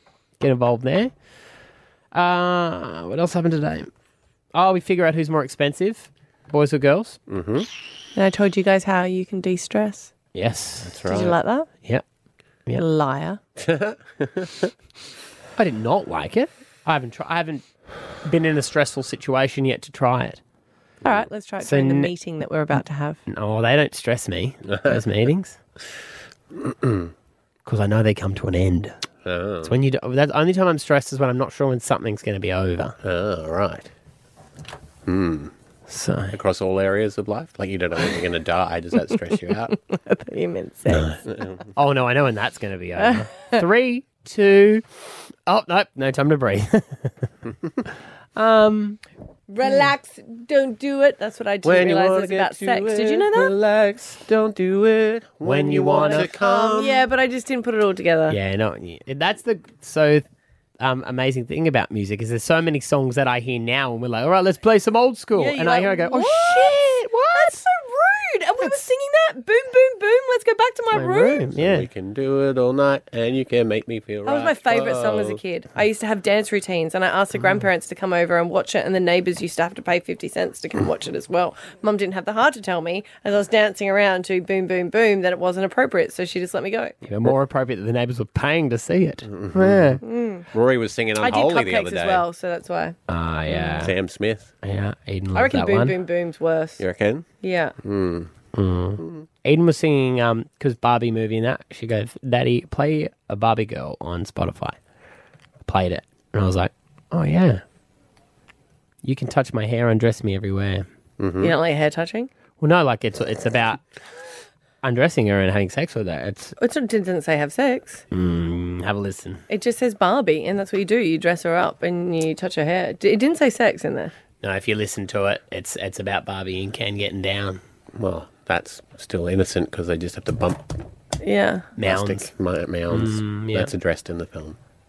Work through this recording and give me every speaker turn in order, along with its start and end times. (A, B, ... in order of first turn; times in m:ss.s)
0:00.4-0:01.1 A
0:02.1-0:03.9 A
0:04.5-0:07.2 A
0:07.3-0:07.7 B
0:08.1-0:10.1 C
0:10.3-0:10.9 A
0:10.8-0:11.4 B
0:11.1-0:11.7 C
0:12.8-0:13.4 C
0:13.6-0:14.7 B
0:15.6-0:17.6 A
0:18.2-0:20.4 A
0:21.0-0:23.2 C
0:21.6-0:22.1 A
0:23.3-0:25.6 A
0:24.7-0:25.0 B
0:26.5-0:27.1 B
0:27.6-0:29.0 A
0:29.2-0:29.7 B
0:29.6-0:33.0 A
0:33.0-0:33.9 B
0:35.0-0:35.5 B
0:35.9-0:36.4 A
0:36.3-0:39.8 B
0:39.9-0:41.1 C
0:40.9-0:41.6 B
0:41.8-0:44.8 A
0:43.0-0:43.6 C
0:45.5-0:47.3 A
0:48.4-0:49.0 A
0:49.5-0:53.5 C
0:51.6-0:57.0 B
0:55.4-0:56.3 A
0:56.0-0:58.4 C
0:58.3-1:00.2 A
1:00.8-1:07.6 A
1:05.4-1:11.4 C
1:10.9-1:11.9 A
1:11.5-1:15.4 B
1:14.2-1:26.9 C
1:27.0-1:30.0 A
1:29.3-1:32.2 B
1:30.0-1:30.5 C
1:31.2-1:33.0 C
1:33.1-1:33.9 A
1:33.5-1:33.8 C
1:33.8-1:34.5 B
1:34.6-1:36.0 A
1:35.3-1:36.8 C
1:36.8-1:37.3 B
1:37.4-1:37.7 C
1:37.8-1:38.4 B
1:38.5-1:44.8 A
1:39.0-1:39.2 B
1:45.6-1:47.6 A
1:49.0-1:50.8 A
1:51.2-1:51.5 B
1:51.4-1:52.3 C
1:52.6-1:53.8 A
1:54.8-1:56.5 A
1:56.6-1:58.0 C
1:58.1-1:59.4 A
1:59.5-2:04.1 C
2:04.4-2:07.6 A
2:07.9-2:10.7 B
2:11.2-2:11.7 C
2:11.8-2:12.3 A
2:11.8-2:14.6 B
2:12.9-2:13.7 A